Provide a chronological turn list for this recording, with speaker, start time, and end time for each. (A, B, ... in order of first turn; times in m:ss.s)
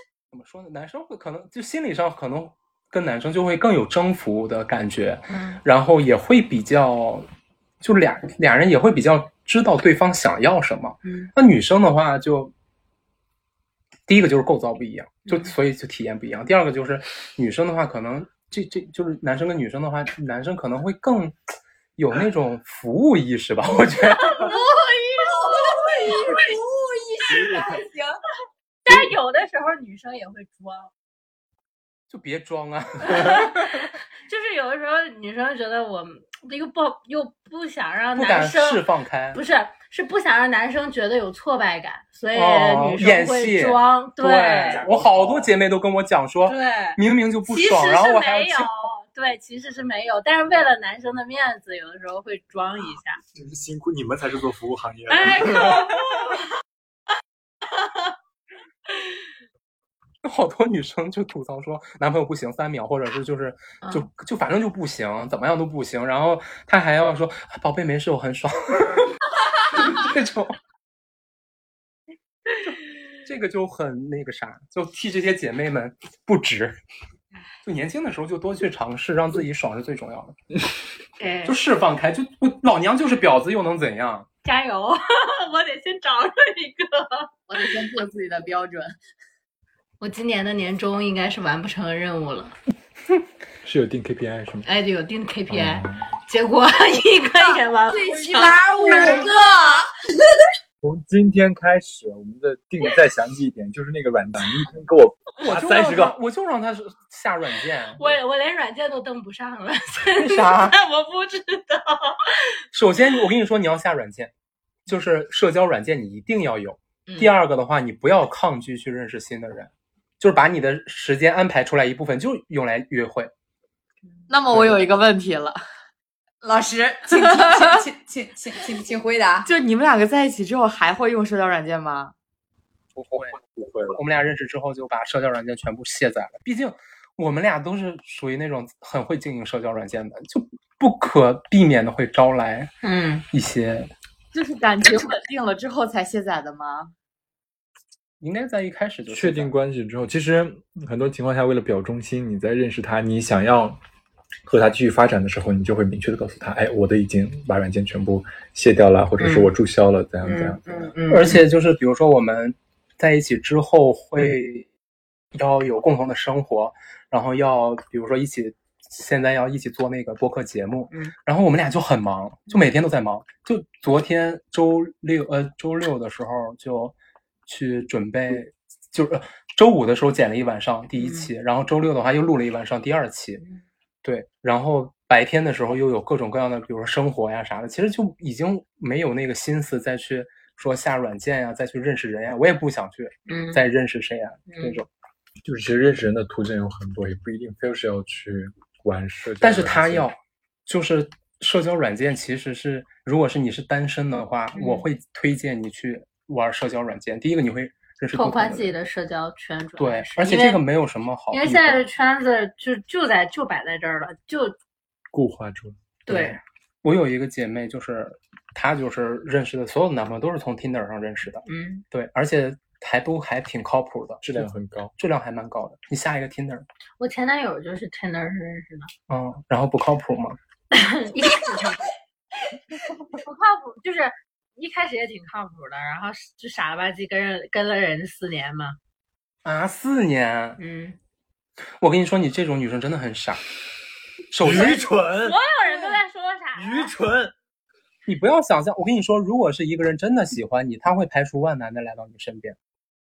0:00.3-0:07.3 A
0:05.3-0:05.6 B
0:07.8-0:12.5 A
0:11.0-0:11.3 B
0:14.1-0:21.4 A
0:15.2-0:15.5 B
0:22.0-0:24.4 A
0:24.2-0:26.4 B
0:25.2-0:28.1 C
0:27.3-0:27.6 D
0:28.8-0:30.9 B
0:32.1-0:33.9 A
0:33.0-0:44.8 B
0:38.1-0:39.4 A
0:42.3-0:48.8 A
0:44.8-0:45.5 D
0:46.4-0:53.2 B
0:53.3-0:55.9 D
0:55.1-0:56.4 B
1:00.2-1:09.2 A
1:09.7-1:10.6 A
1:12.6-1:16.8 A
1:17.6-1:20.4 A
1:21.2-1:21.6 B
1:21.4-1:24.3 A
1:24.4-1:27.3 B
1:27.5-1:29.0 E
1:30.0-1:32.5 B
1:33.6-1:34.7 D
1:34.6-1:39.2 B
1:35.5-1:36.1 D
1:38.0-1:39.8 C
1:40.8-1:46.2 D
1:45.4-1:48.0 A
1:48.0-1:52.4 B
1:50.2-1:50.8 A
1:52.7-1:54.3 A
1:54.9-2:03.3 A
2:04.3-2:05.6 E
2:06.4-2:09.5 C
2:07.2-2:07.7 E
2:09.4-2:12.1 E
2:13.0-2:13.4 A
2:13.2-2:14.0 D
2:13.9-2:22.7 A
2:22.8-2:23.2 B
2:23.3-2:23.9 A
2:24.3-2:26.9 E
2:28.2-2:29.5 A
2:29.1-2:33.8 D
2:34.4-2:40.9 D
2:39.2-2:39.5 B
2:40.2-2:41.4 B
2:41.1-2:44.7 A
2:45.3-2:57.0 A
2:57.5-3:03.4 A
3:01.0-3:01.3 B
3:04.0-3:14.9 A
3:13.3-3:13.6 B
3:14.5-3:14.8 B
3:15.4-3:20.1 D
3:19.4-3:28.7 A
3:24.5-3:24.8 B
3:28.1-3:30.6 B
3:29.8-3:31.8 A
3:31.3-3:34.6 B
3:35.1-3:35.8 D
3:36.1-3:36.4 B
3:36.1-3:46.6 A
3:41.5-3:41.8 B
3:44.2-3:44.9 D
3:47.0-3:48.9 B
3:49.1-3:50.4 A
3:50.7-3:51.9 B
3:53.1-3:58.8 B
3:59.4-4:00.6 A
4:00.6-4:01.0 B
4:01.8-4:03.4 A
4:04.3-4:05.0 A
4:04.4-4:05.4 D
4:04.6-4:06.9 B
4:06.5-4:07.3 D
4:08.0-4:12.6 A